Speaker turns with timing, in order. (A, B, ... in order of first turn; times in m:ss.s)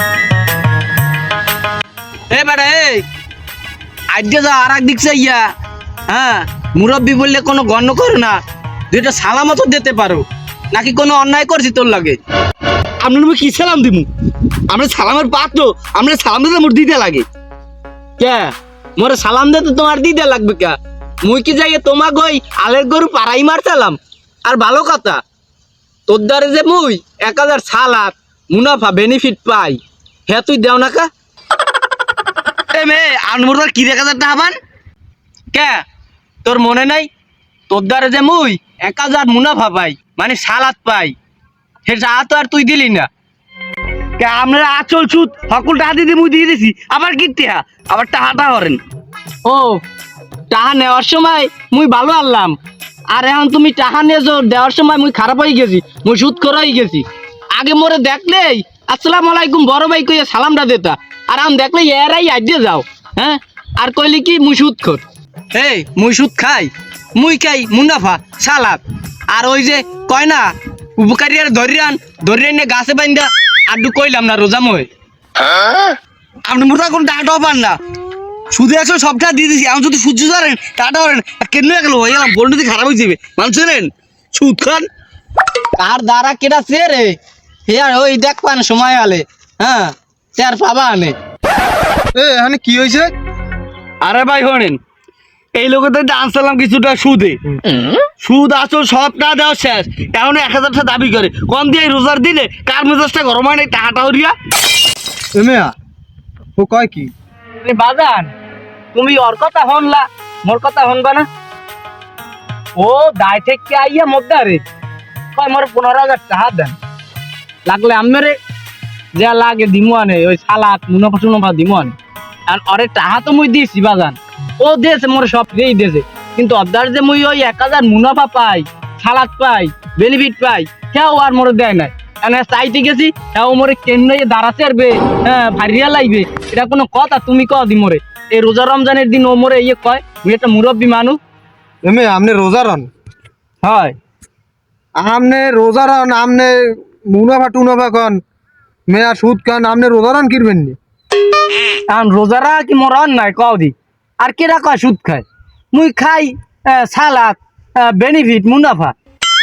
0:02.3-0:03.0 A
0:04.1-0:05.4 A
0:06.1-0:08.4 A
0:08.9-0:12.2 A
0:13.0-0:14.0 A
0:13.2-0:13.9 B
0:14.7-0:17.2 B
0:18.2-0:25.2 A
0:26.1-0:31.1 A
0:32.7-0:34.6 A
0:35.5-0:35.8 A
0:36.4-0:37.1 A
0:37.7-0:41.1 A
0:41.8-0:43.1 A
0:44.2-0:48.8 B
0:49.4-0:49.8 A
0:50.5-0:52.6 A
0:53.1-1:05.0 A
1:05.5-1:14.9 A
1:16.4-1:17.7 B
1:18.5-1:24.9 B
1:25.8-1:31.2 A
1:32.1-1:33.1 C
1:34.0-1:34.8 B
1:35.5-1:37.4 B
1:38.2-1:44.4 B
1:45.4-1:45.7 C
1:46.6-1:47.1 C
1:47.6-1:48.3 A
1:48.9-1:51.3 A
1:52.8-1:54.6 A
1:55.3-1:56.8 A
1:57.6-1:58.4 A
1:59.1-2:01.9 A
2:02.5-2:21.2 A
2:21.8-2:22.9 C
2:23.6-2:23.9 A
2:25.0-2:28.2 C
2:28.9-2:30.8 C
2:31.9-2:38.9 A